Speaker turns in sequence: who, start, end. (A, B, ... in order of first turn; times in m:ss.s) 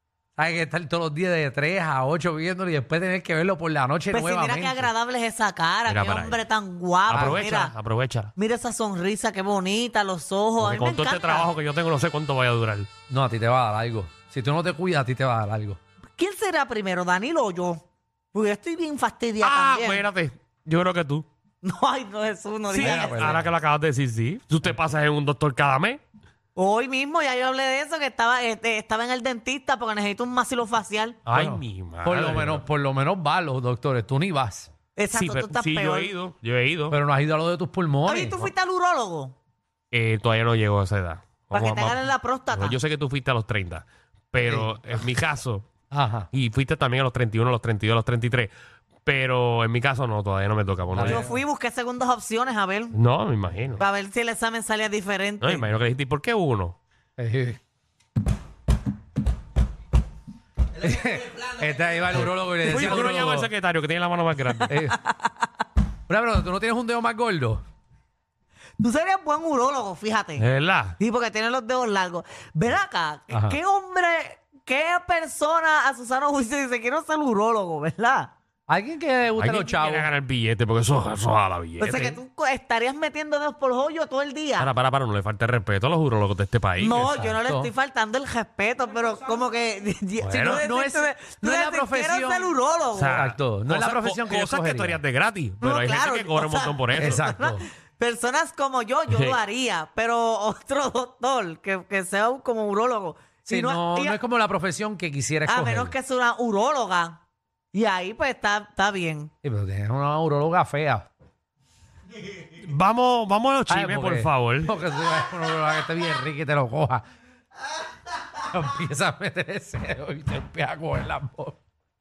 0:00.4-0:04.9 A
0:04.1-0:07.7 B
0:05.8-0:06.4 C
0:07.1-0:08.3 C
0:07.1-0:07.4 A
0:08.4-0:11.5 B
0:10.6-0:12.9 C
0:13.1-0:15.8 A
0:16.2-0:17.8 B
0:18.3-0:20.0 B
0:19.4-0:21.2 C
0:21.6-0:23.4 B
0:22.7-0:26.0 C
0:22.7-0:23.5 A
0:26.6-0:31.2 B
0:31.2-0:32.6 C
0:31.3-0:34.7 A
0:35.0-0:36.1 B
0:35.1-0:37.0 C
0:36.9-0:38.4 A
0:38.1-0:39.3 B
0:39.9-0:42.0 C
0:41.5-0:42.8 B
0:42.5-0:45.7 C
0:44.4-0:45.2 A
0:45.9-0:46.3 A
0:46.3-0:48.5 C
0:49.0-0:51.3 C
0:50.9-0:51.3 A
0:51.0-0:52.9 B
0:52.9-0:53.8 C
0:53.8-0:55.6 B
0:55.4-0:56.8 C
0:57.2-0:57.6 A
1:00.8-1:03.5 A
1:02.2-1:04.7 C
1:04.7-1:05.0 A
1:04.8-1:05.3 B
1:06.1-1:07.6 A
1:08.8-1:10.4 B
1:10.4-1:11.0 C
1:11.0-1:18.3 B
1:13.3-1:13.6 A
1:18.7-1:20.1 A
1:19.4-1:22.2 C
1:21.8-1:24.7 B
1:24.6-1:27.1 C
1:26.8-1:33.2 B
1:27.0-1:27.7 A
1:30.2-1:30.6 C
1:30.4-1:32.5 A
1:32.9-1:37.2 C
1:33.0-1:35.0 A
1:35.6-1:44.2 B
1:36.9-1:37.6 A
1:39.1-1:39.4 C
1:43.4-1:45.9 A
1:45.4-1:47.2 B
1:47.7-1:49.3 B
1:49.4-1:51.1 A
1:52.6-1:54.7 C
1:53.7-1:57.0 A
1:58.4-2:01.6 A